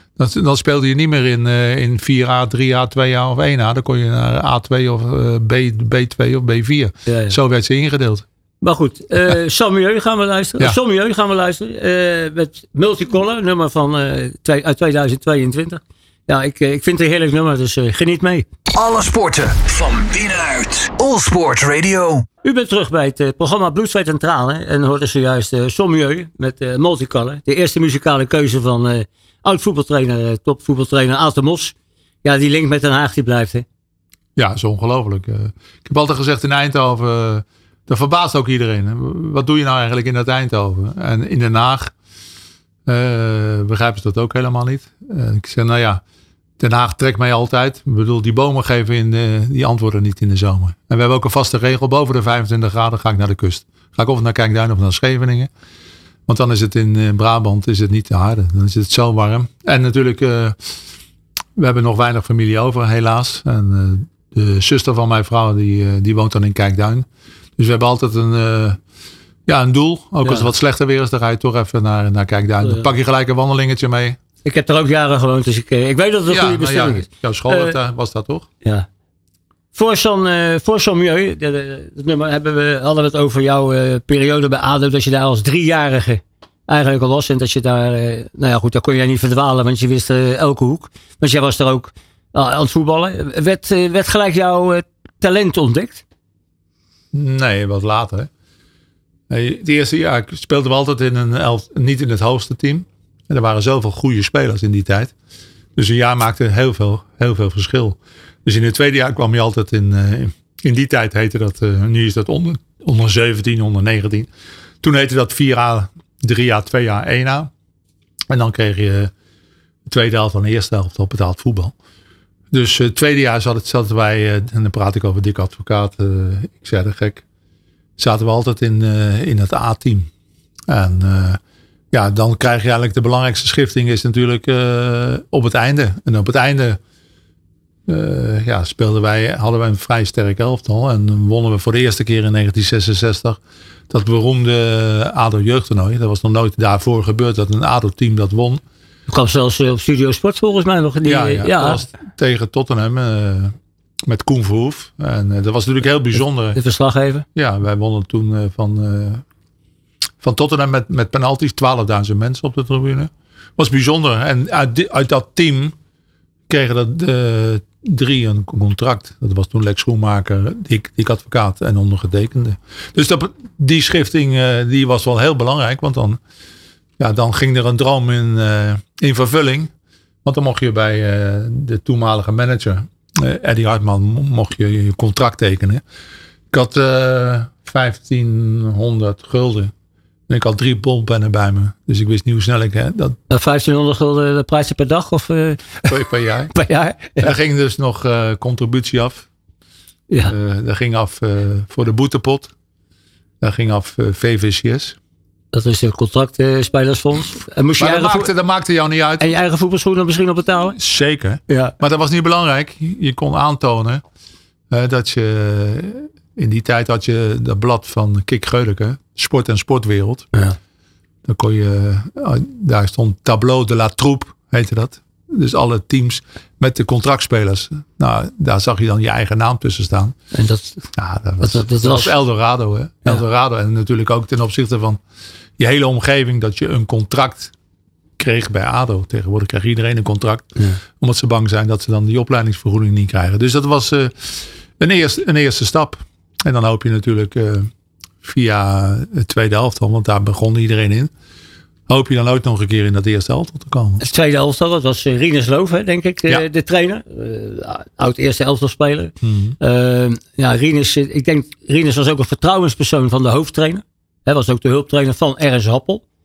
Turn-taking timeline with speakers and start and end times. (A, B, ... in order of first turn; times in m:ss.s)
0:00.2-0:08.2 A
0:07.1-0:07.4 B
0:08.6-0:18.4 B
0:18.7-0:22.2 C
0:22.4-0:33.6 B
0:34.4-0:41.9 A
0:42.8-0:46.0 A
0:46.6-0:55.5 A
0:56.3-1:00.6 A
1:01.6-1:07.0 A
1:07.6-1:08.8 A
1:09.4-1:14.2 A
1:14.4-1:17.8 B
1:16.3-1:18.5 A
1:19.7-1:36.0 B
1:37.1-1:38.3 A
1:39.3-1:45.1 A
1:45.8-1:54.3 A
1:54.8-1:57.5 A
1:58.3-1:59.1 A
1:59.8-2:01.7 A
2:02.5-2:07.2 A
2:08.0-2:10.1 A
2:10.7-2:11.4 A
2:11.9-2:16.8 A
2:17.9-2:28.6 A
2:29.1-2:31.8 B
2:31.0-2:36.6 A
2:36.5-2:37.2 B
2:37.3-2:39.2 A
2:40.2-2:45.7 A
2:46.5-2:56.2 A
2:57.0-2:59.7 A
3:00.2-3:05.8 A
3:06.5-3:09.7 A
3:10.3-3:13.2 A
3:13.3-3:15.9 B
3:15.8-3:16.5 A
3:16.5-3:17.3 B
3:17.2-3:19.3 A
3:20.1-3:20.3 B
3:20.3-3:22.5 A
3:23.4-3:25.0 A
3:25.5-3:28.3 B
3:27.8-3:29.3 A
3:29.2-3:30.8 B
3:30.8-3:34.0 A
3:31.5-3:31.7 B
3:34.7-3:40.3 A
3:41.2-3:50.2 A
3:50.3-3:50.8 B
3:50.9-3:55.0 A
3:51.4-3:52.1 B
3:55.6-3:57.5 A
3:58.2-4:07.7 A
4:08.2-4:11.1 A
4:11.9-4:14.0 A
4:14.0-4:26.0 B
4:19.2-4:19.6 A